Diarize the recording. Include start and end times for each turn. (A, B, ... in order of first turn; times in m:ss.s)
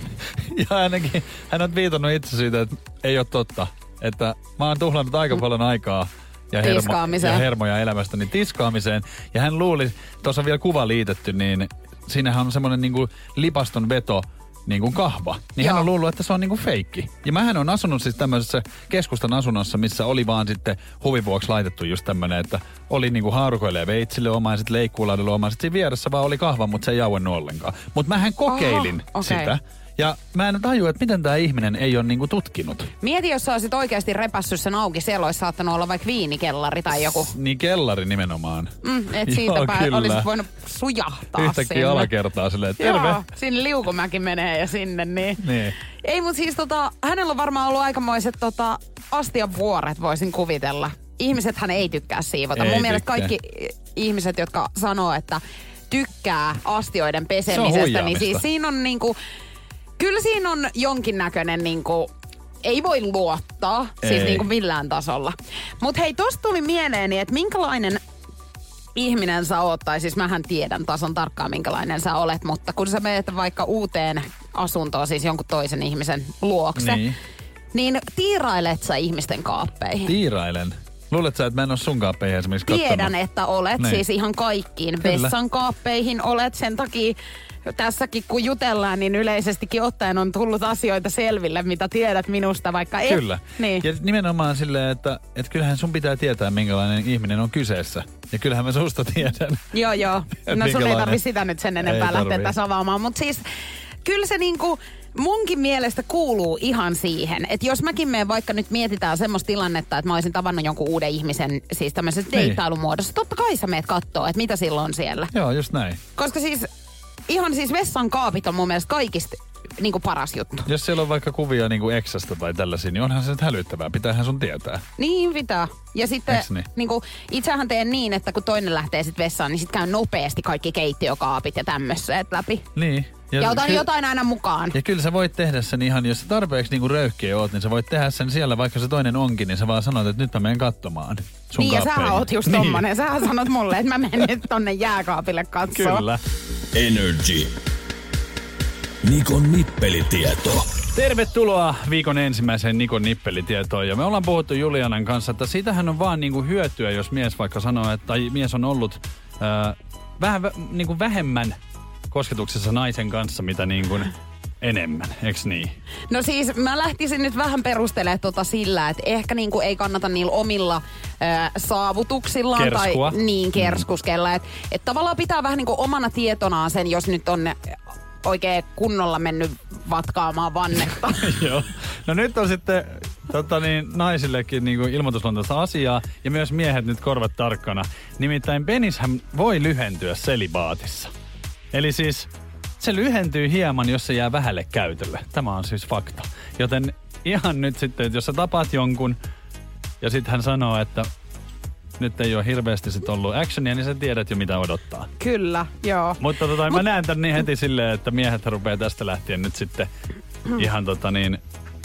0:00.3-0:32.9 A
0:06.6-0:07.4 B
0:15.6-0:15.9 B
0:28.5-0:29.6 B
0:33.0-0:37.3 B
0:36.9-0:40.3 A
0:38.8-0:42.1 B
0:41.4-0:43.2 A
0:42.8-0:45.4 B
0:45.4-0:45.8 A
0:46.0-0:59.2 B
0:52.6-0:53.3 A
0:57.5-0:58.5 A
1:00.0-1:02.1 B
1:02.6-1:08.0 B
1:04.0-1:04.5 A
1:09.0-1:17.0 B
1:16.8-1:17.2 A
1:17.7-1:20.1 B
1:20.0-1:23.1 A
1:22.7-1:33.8 B
1:23.8-1:24.0 A
1:25.0-1:25.3 A
1:33.1-1:39.8 A
1:39.7-1:43.4 B
1:40.5-1:41.2 A
1:41.8-1:42.5 A
1:44.0-1:55.3 B
1:52.3-1:52.6 A
1:55.3-1:56.0 A
1:56.2-1:56.7 B
1:57.3-2:00.7 B
2:00.7-2:04.8 A
2:05.0-2:12.7 B
2:06.3-2:06.7 A
2:12.8-2:13.9 A
2:13.4-2:14.8 B
2:14.7-2:22.8 A
2:21.6-2:26.0 B
2:25.7-2:26.2 A
2:26.7-2:27.5 C
2:29.0-2:30.7 C
2:30.9-2:41.6 A
2:42.1-2:45.8 A
2:46.1-3:01.5 B
2:52.6-2:53.8 A
3:01.2-3:11.1 A
3:11.7-3:19.2 A
3:20.0-3:21.1 A
3:22.0-3:25.1 A
3:25.2-3:26.8 B
3:26.2-3:29.9 A
3:30.5-3:31.4 A